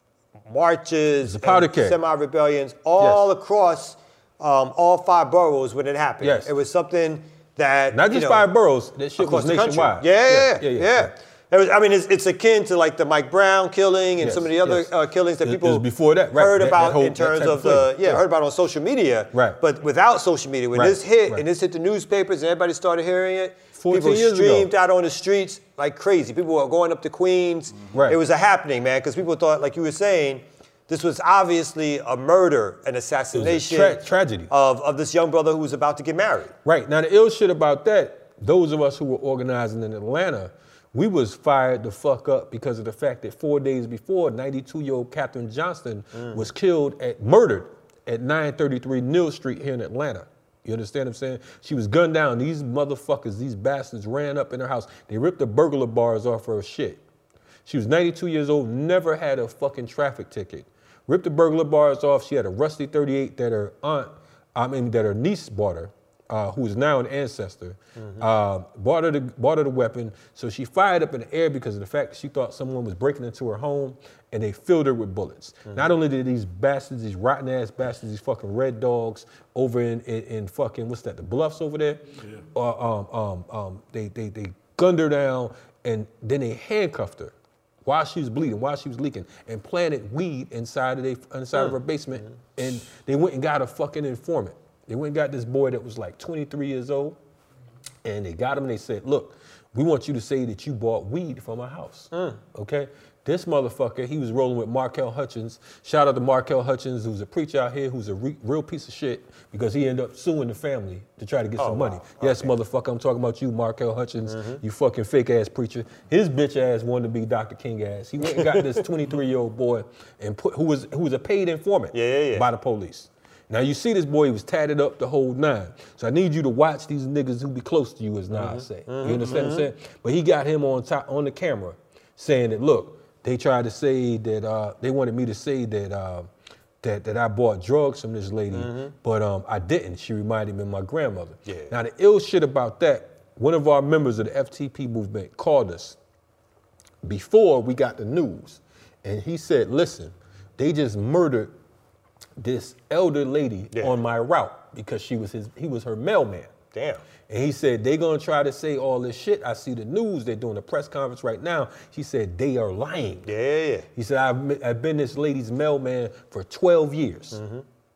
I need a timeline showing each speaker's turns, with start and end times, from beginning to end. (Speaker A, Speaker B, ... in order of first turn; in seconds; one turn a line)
Speaker A: 0.5-8.5
Speaker B: 1.2-2.0
Speaker B: 3.0-3.2
Speaker B: 6.2-6.5
Speaker B: 7.9-11.1
Speaker A: 9.2-36.5
Speaker B: 14.2-18.2
Speaker B: 19.3-19.6
Speaker B: 20.7-21.4
Speaker B: 23.8-24.7
Speaker B: 27.9-28.2
Speaker B: 33.3-34.5
Speaker B: 36.6-57.0
Speaker B: 57.6-87.3
Speaker A: 68.0-68.2
Speaker B: 87.8-97.2
Speaker B: 98.0-136.3
Speaker A: 102.1-102.4
Speaker A: 111.6-112.5
Speaker A: 114.2-114.6
Speaker A: 118.3-118.7
Speaker A: 121.9-122.5
Speaker A: 128.3-129.7
Speaker B: 136.8-146.0
Speaker A: 138.5-138.9
Speaker A: 141.5-141.7
Speaker B: 147.0-151.5
Speaker B: 152.4-156.5
Speaker A: 156.7-157.0
Speaker B: 157.3-163.3
Speaker A: 163.2-163.9
Speaker B: 163.9-167.4
Speaker A: 167.3-167.6